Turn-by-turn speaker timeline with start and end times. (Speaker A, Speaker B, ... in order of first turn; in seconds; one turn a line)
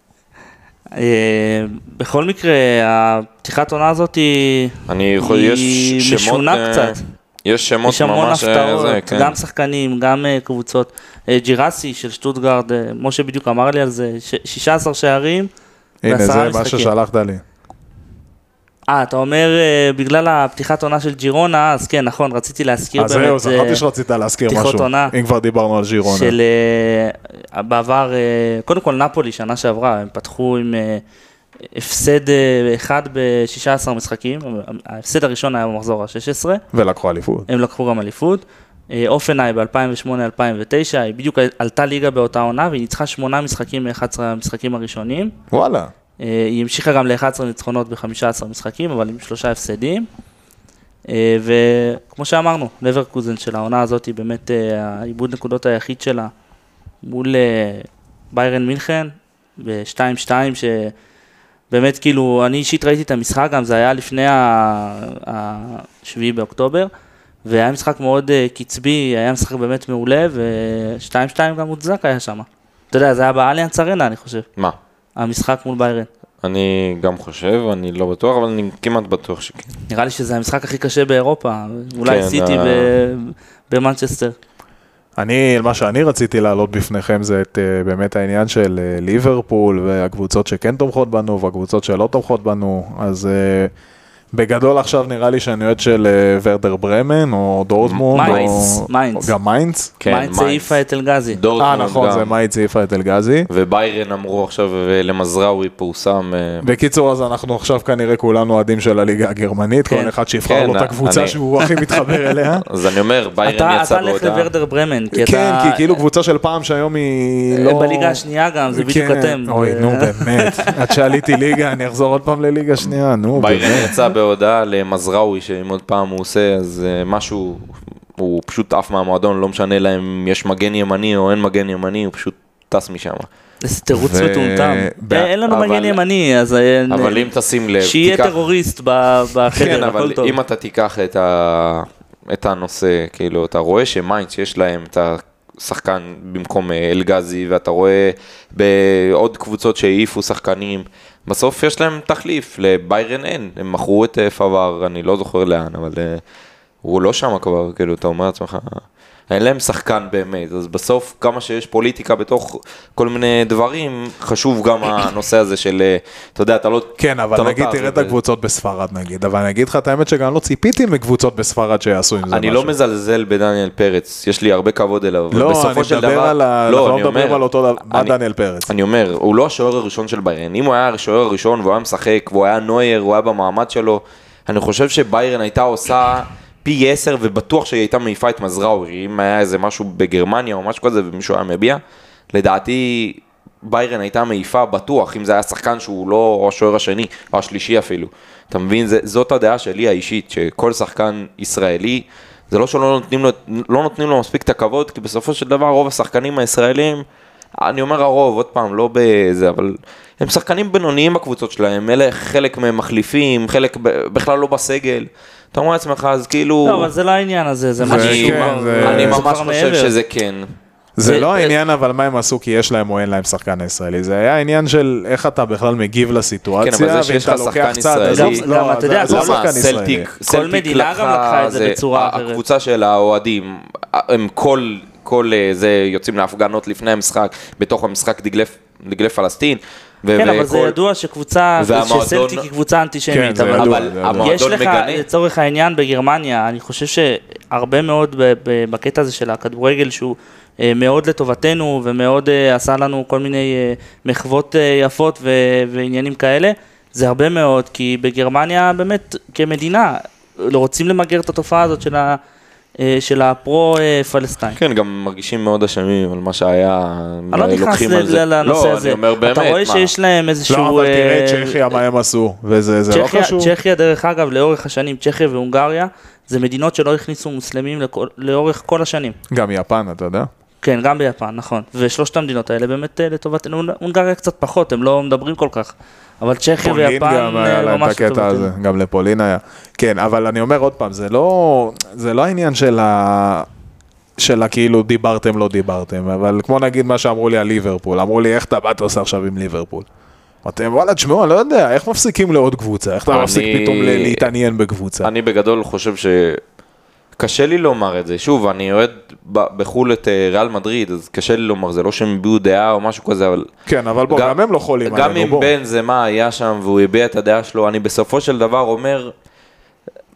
Speaker A: 0.9-7.0
Speaker B: 4.9-9.4
Speaker A: 7.9-15.5
Speaker C: 16.0-17.4
Speaker A: 16.1-16.9
Speaker A: 18.9-23.8
Speaker C: 23.0-26.4
Speaker A: 24.5-25.1
Speaker A: 26.0-31.0
Speaker A: 31.7-36.6
Speaker C: 36.7-37.5
Speaker A: 37.5-45.3
Speaker C: 45.5-45.9
Speaker A: 46.2-50.1
Speaker A: 51.1-56.3
Speaker A: 57.0-60.9
Speaker A: 61.7-66.9
Speaker A: 67.5-74.5
Speaker A: 75.2-76.1
Speaker B: 76.4-79.8
Speaker A: 79.9-84.3
Speaker B: 82.0-82.9
Speaker C: 85.2-93.7
Speaker C: 94.3-99.9
Speaker B: 97.8-98.6
Speaker A: 98.1-99.3
Speaker B: 100.0-100.8
Speaker A: 100.0-101.4
Speaker B: 101.3-102.3
Speaker C: 101.6-103.5
Speaker B: 103.5-106.6
Speaker C: 106.6-112.7
Speaker B: 110.5-111.4
Speaker B: 112.7-114.5
Speaker A: 113.4-116.0
Speaker C: 115.1-118.2
Speaker A: 117.5-120.7
Speaker C: 118.7-123.9
Speaker B: 123.3-133.3
Speaker A: 133.6-140.3
Speaker C: 133.9-135.3
Speaker B: 135.5-136.0
Speaker B: 136.9-138.4
Speaker B: 139.5-156.2
Speaker B: 156.8-168.2
Speaker C: 167.0-172.7
Speaker B: 172.3-178.2
Speaker C: 175.3-178.7
Speaker B: 178.7-191.8
Speaker B: 192.3-207.0
Speaker B: 207.6-216.9
Speaker A: 216.6-219.9
Speaker C: 217.8-219.2
Speaker B: 217.8-220.5
Speaker C: 221.0-230.1
Speaker A: 221.0-221.5
Speaker B: 226.6-228.4
Speaker A: 228.1-229.4
Speaker B: 229.0-240.8
Speaker A: 230.3-232.4
Speaker A: 240.2-262.2
Speaker B: 241.6-242.5
Speaker C: 243.1-244.4
Speaker B: 243.6-245.0
Speaker A: 262.8-264.6
Speaker B: 264.5-269.9
Speaker A: 267.3-271.8
Speaker C: 270.5-273.5
Speaker A: 272.9-279.2
Speaker C: 279.3-280.3
Speaker A: 280.6-288.5
Speaker C: 286.6-293.5
Speaker C: 294.2-299.9
Speaker C: 300.4-305.1
Speaker B: 303.1-304.3
Speaker B: 305.0-306.4
Speaker B: 307.2-313.5
Speaker C: 313.7-315.5
Speaker B: 314.1-319.1